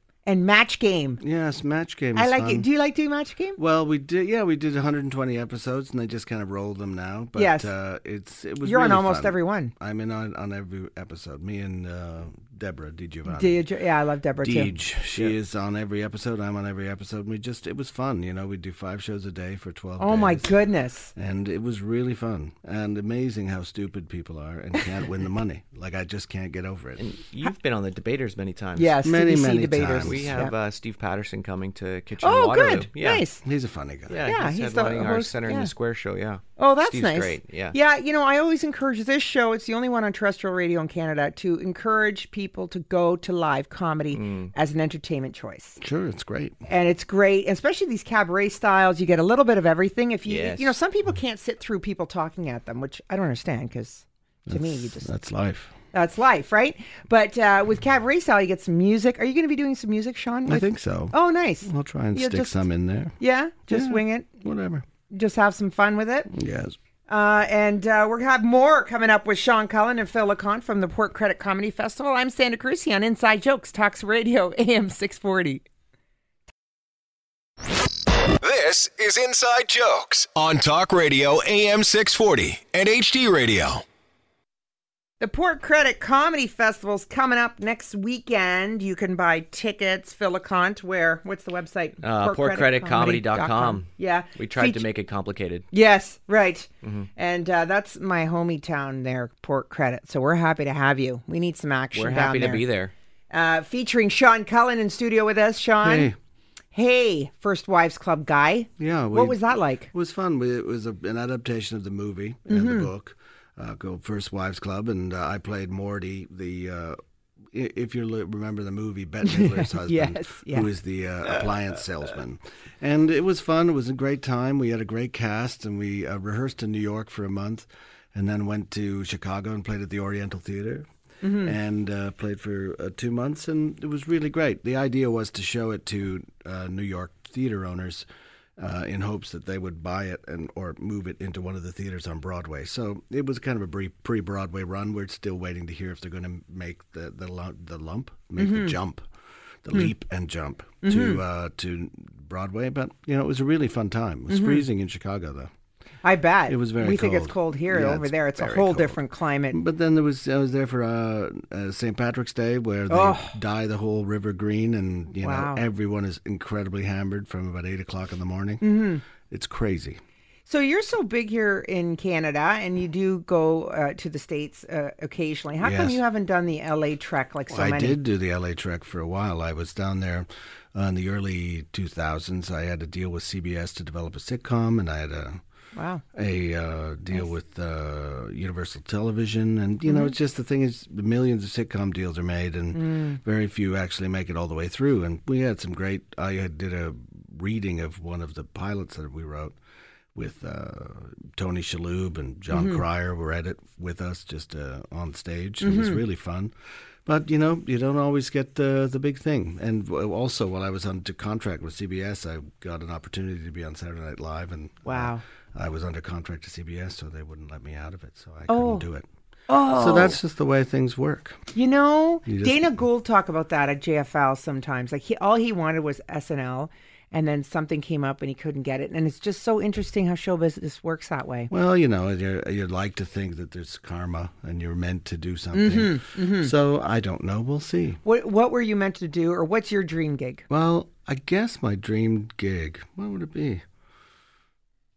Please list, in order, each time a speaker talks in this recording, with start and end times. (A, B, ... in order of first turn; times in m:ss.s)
0:00.2-0:01.2 A
0:01.2-0:02.7 B
0:02.2-0:03.6 A
0:03.6-0:13.6 B
0:07.4-0:07.7 A
0:08.6-0:09.7 A
0:13.3-0:14.8 A
0:14.4-0:20.5 B
0:20.0-0:21.1 A
0:21.1-0:27.0 B
0:27.0-0:29.0 C
0:28.8-0:30.5 A
0:29.0-0:30.4 B
0:30.0-0:33.2 C
0:32.2-0:33.4 A
0:33.4-0:34.2 B
0:34.1-0:37.8 C
0:34.2-0:35.7 A
0:36.6-0:45.8 A
0:44.1-0:44.5 C
0:45.8-0:46.6 B
0:46.7-0:55.1 A
0:50.2-0:50.8 C
0:54.5-0:55.7 B
0:55.9-1:02.6 A
1:00.5-1:03.1 B
1:03.2-1:04.3 A
1:03.7-1:04.8 B
1:05.1-1:06.3 A
1:06.3-1:06.8 B
1:07.1-1:15.6 A
1:18.4-1:23.8 D
1:25.2-1:34.8 A
1:32.0-1:35.6 C
1:35.7-1:42.6 A
1:36.8-1:37.1 C
1:41.9-1:42.9 C
1:43.3-1:46.1 A
1:45.8-1:46.2 B
1:46.7-1:49.9 A
1:48.8-1:57.0 B
1:52.5-1:52.9 A
1:57.5-2:10.9 B
1:59.2-2:00.7 A
2:11.2-2:11.5 A
2:11.4-2:18.0 B
2:18.6-2:29.0 B
2:28.4-2:28.8 A
2:29.6-2:35.5 B
2:30.8-2:31.2 A
2:34.3-2:34.6 A
2:36.0-2:39.6 A
2:36.5-2:50.0 B
2:42.9-2:43.3 A
2:45.2-2:45.6 A
2:48.6-2:49.0 A
2:50.5-2:58.0 A
2:55.6-2:56.0 B
2:57.5-3:05.4 B
3:05.7-3:06.0 A
3:06.1-3:19.6 B
3:09.8-3:10.1 A
3:12.7-3:13.2 A
3:20.1-3:26.5 B
3:22.5-3:22.8 A
3:25.6-3:26.0 A
3:27.0-3:39.1 B
3:34.8-3:35.2 A
3:38.5-3:38.8 A
3:39.5-3:40.2 A
3:39.6-3:41.5 B
3:41.5-3:51.5 A
3:42.2-3:42.8 B
3:51.5-3:58.0 B
3:55.5-3:56.5 A
3:58.0-4:00.4 A
4:00.5-4:03.6 B